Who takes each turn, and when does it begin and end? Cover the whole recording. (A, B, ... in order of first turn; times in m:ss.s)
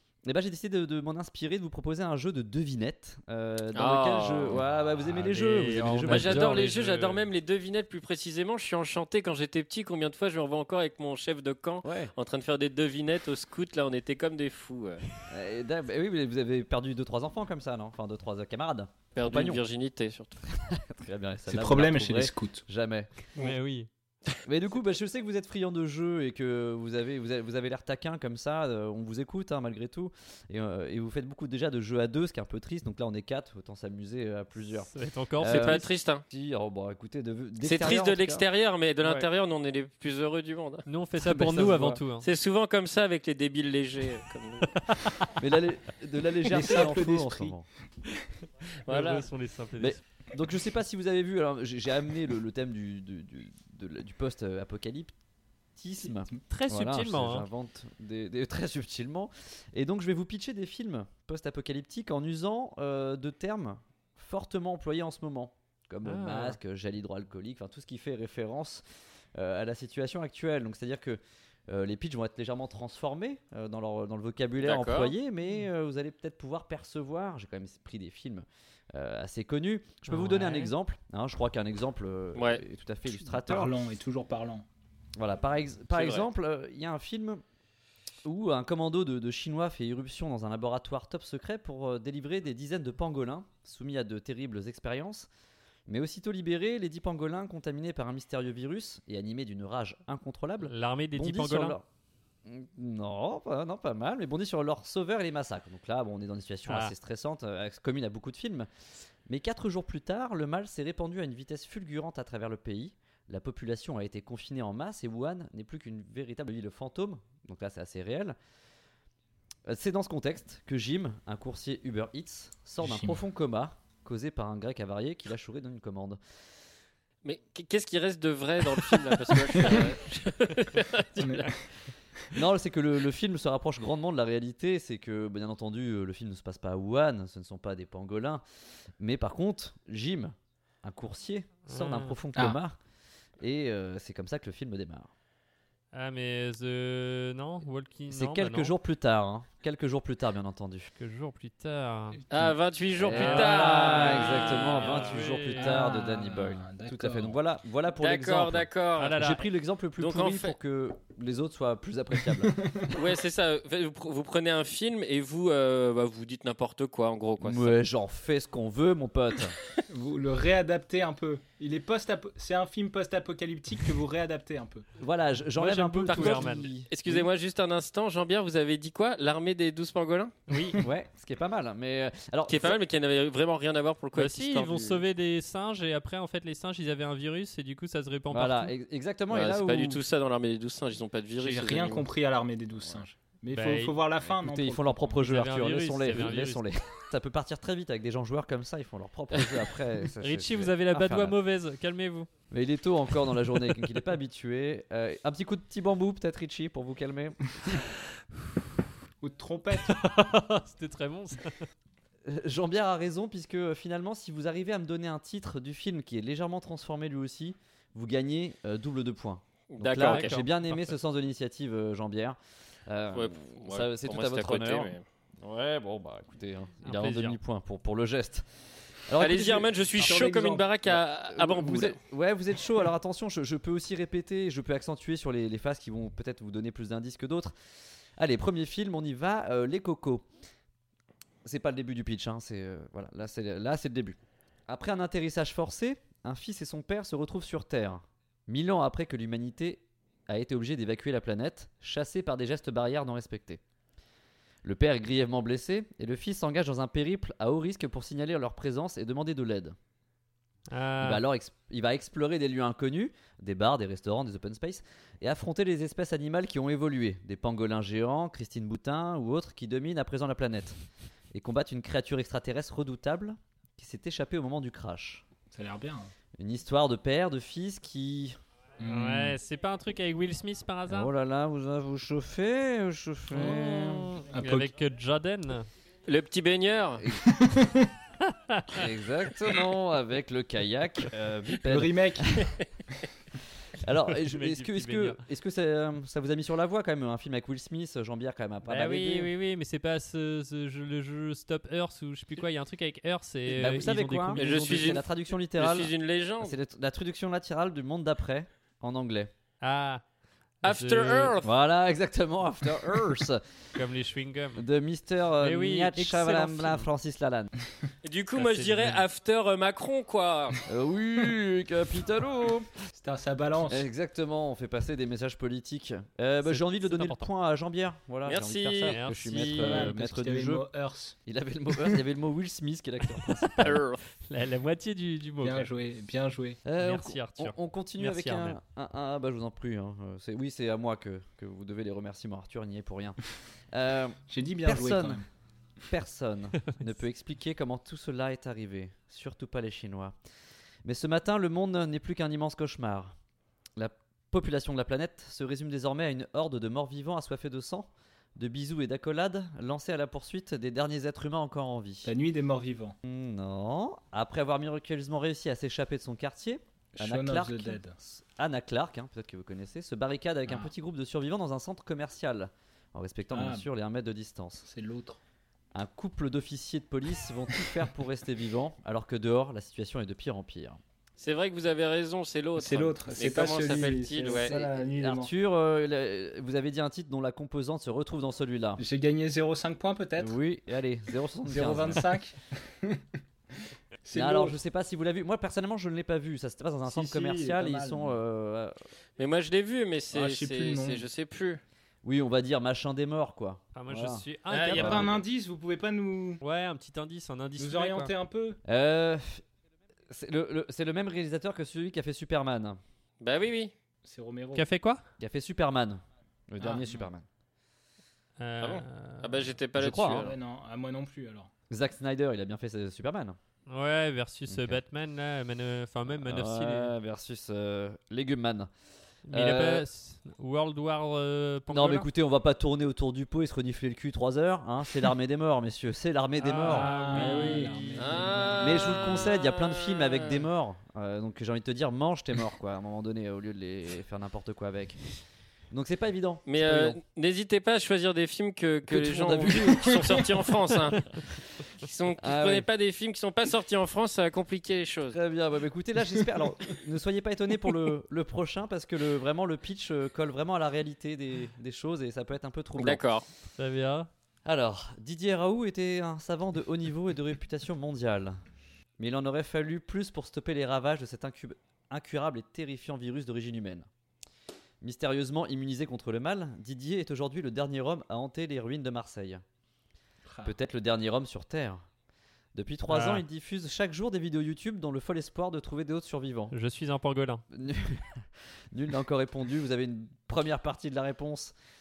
0:00.2-0:06.6 A
0:03.7-0:04.6 B
0:05.2-0:07.2 C
0:06.1-0:15.0 B
0:11.8-0:12.1 A
0:15.3-0:19.6 A
0:19.2-0:20.4 B
0:20.6-0:23.1 A
0:21.5-0:22.6 D
0:23.4-0:23.9 C
0:24.4-0:38.4 A
0:34.8-0:35.9 C
0:35.4-0:36.2 B
0:37.6-0:40.8 B
0:40.9-0:42.3 C
0:41.2-0:42.0 A
0:42.2-0:44.8 B
0:44.8-0:45.3 C
0:45.4-0:47.7 A
0:46.4-0:47.5 D
0:48.9-0:49.3 B
0:48.9-0:50.0 C
0:49.8-0:55.1 A
0:55.8-1:08.8 A
0:56.5-0:57.5 C
1:06.0-1:06.6 C
1:09.4-1:23.8 A
1:14.6-1:15.2 B
1:20.1-1:20.7 C
1:22.4-1:22.6 B
1:23.3-1:24.6 D
1:25.2-1:27.4 A
1:25.9-1:26.3 B
1:28.2-1:35.3 A
1:35.9-1:41.8 A
1:40.6-1:41.8 C
1:42.4-1:48.7 A
1:46.7-1:46.9 C
1:49.3-1:58.4 A
1:59.7-2:06.2 A
2:02.8-2:03.2 D
2:07.2-2:11.5 B
2:11.2-2:11.6 D
2:12.3-2:18.4 A
2:19.0-2:22.8 A
2:21.7-2:22.2 C
2:23.4-2:25.1 A
2:25.9-2:28.8 C
2:28.1-2:30.9 A
2:31.0-2:32.2 C
2:32.3-2:35.0 B
2:33.0-2:43.0 A
2:33.1-2:35.8 C
2:35.6-2:37.4 D
2:38.0-2:39.3 B
2:39.0-2:39.5 C
2:40.0-2:40.6 B
2:42.5-2:42.8 D
2:42.9-2:47.8 B
2:47.4-2:49.6 A
2:49.9-2:54.9 D
2:55.0-2:57.3 A
2:55.6-2:56.7 C
2:56.1-3:00.4 B
3:00.5-3:00.8 C
3:00.8-3:02.8 A
3:02.5-3:05.0 B
3:04.2-3:08.7 C
3:08.3-3:10.0 A
3:09.3-3:12.1 B
3:11.4-3:15.2 D
3:13.5-3:14.0 C
3:14.3-3:21.4 A
3:15.2-3:16.7 C
3:20.2-3:22.3 C
3:22.5-3:27.8 A
3:29.2-3:30.2 D
3:29.8-3:31.6 C
3:32.2-3:48.5 A
3:39.7-3:40.3 B
3:40.0-3:41.0 C
3:43.1-3:45.0 B
3:46.8-3:47.4 C
3:49.1-3:50.3 A
3:49.2-3:52.0 B
3:50.0-3:50.7 D
3:50.9-3:57.5 A
3:58.2-4:00.3 A
4:01.4-4:04.2 A
4:04.7-4:13.6 A
4:14.6-4:19.8 A
4:20.7-4:21.2 C
4:21.0-4:30.8 A
4:31.3-4:35.2 A
4:35.5-4:36.1 D
4:36.4-4:38.4 A
4:38.8-4:39.4 D
4:38.8-4:41.1 C
4:40.9-4:44.2 A
4:43.3-4:45.7 C
4:44.3-4:44.7 D
4:46.1-4:47.0 B
4:47.0-4:47.3 A
4:47.3-4:47.9 D
4:48.3-4:48.8 C
4:48.7-4:52.5 A
4:51.6-4:52.3 D
4:53.8-4:59.3 A
4:54.1-4:55.2 C
4:58.6-5:05.0 C
5:03.5-5:09.3 A
5:04.4-5:05.0 B
5:05.6-5:06.6 B
5:09.6-5:10.0 C
5:10.6-5:11.3 C
5:10.6-5:11.5 B
5:11.4-5:13.4 A
5:13.8-5:14.6 C
5:14.6-5:17.5 A
5:15.4-5:16.9 C
5:18.0-5:20.6 B
5:18.4-5:19.0 C
5:20.7-5:22.7 A
5:22.9-5:23.8 D
5:23.6-5:30.7 A
5:26.4-5:27.3 C
5:28.2-5:29.2 B
5:28.9-5:29.9 C
5:29.5-5:31.2 D
5:31.3-5:33.8 A
5:33.6-5:34.0 B
5:34.2-5:35.7 C
5:35.4-5:36.6 D
5:36.6-5:43.2 A
5:36.8-5:38.6 C
5:43.7-5:45.2 A
5:44.3-5:45.3 D
5:45.9-5:50.2 A
5:50.8-5:53.2 A
5:53.8-6:02.1 A
6:02.0-6:03.0 D
6:03.0-6:14.7 A
6:07.0-6:08.0 D
6:13.3-6:13.7 D
6:14.7-6:15.2 D
6:15.7-6:20.8 A
6:21.2-6:24.5 B
6:22.6-6:25.3 D
6:24.3-6:28.8 A
6:28.8-6:30.4 D
6:30.2-6:32.1 A
6:31.5-6:33.0 D
6:34.1-6:34.6 D
6:34.1-6:38.8 A
6:36.8-6:38.2 D
6:39.2-6:41.6 B
6:40.1-6:41.0 D
6:42.0-6:45.2 A
6:43.8-6:45.2 C
6:44.5-6:46.4 D
6:46.4-6:48.1 C
6:47.6-6:48.6 D
6:48.7-6:49.4 A
6:50.1-6:52.8 A
6:53.2-6:53.7 B
6:54.0-6:54.7 D
6:54.5-6:55.0 C
6:55.2-6:57.3 A
6:56.6-6:57.1 D
6:58.4-6:59.5 C
6:58.6-7:00.4 B
6:59.8-7:00.3 A
7:00.2-7:01.5 D
7:01.7-7:03.4 A
7:03.7-7:06.9 C
7:04.5-7:04.8 A
7:06.1-7:08.7 A
7:09.3-7:12.1 C
7:09.3-7:09.9 A
7:11.7-7:17.5 A
7:16.4-7:18.2 C
7:16.6-7:19.0 D
7:18.0-7:20.4 B
7:18.6-7:25.0 A
7:25.7-7:27.0 A
7:26.5-7:31.2 B
7:28.9-7:30.4 A
7:31.8-7:35.2 B
7:32.2-7:32.7 A
7:35.1-7:43.0 A
7:42.8-7:43.3 B
7:43.6-7:44.1 C
7:44.5-7:48.4 A
7:49.0-7:53.9 A
7:54.8-7:59.4 A
8:00.3-8:00.5 D
8:00.4-8:01.8 A
8:02.6-8:06.5 A
8:02.9-8:03.2 C
8:06.5-8:07.4 C
8:07.5-8:11.6 A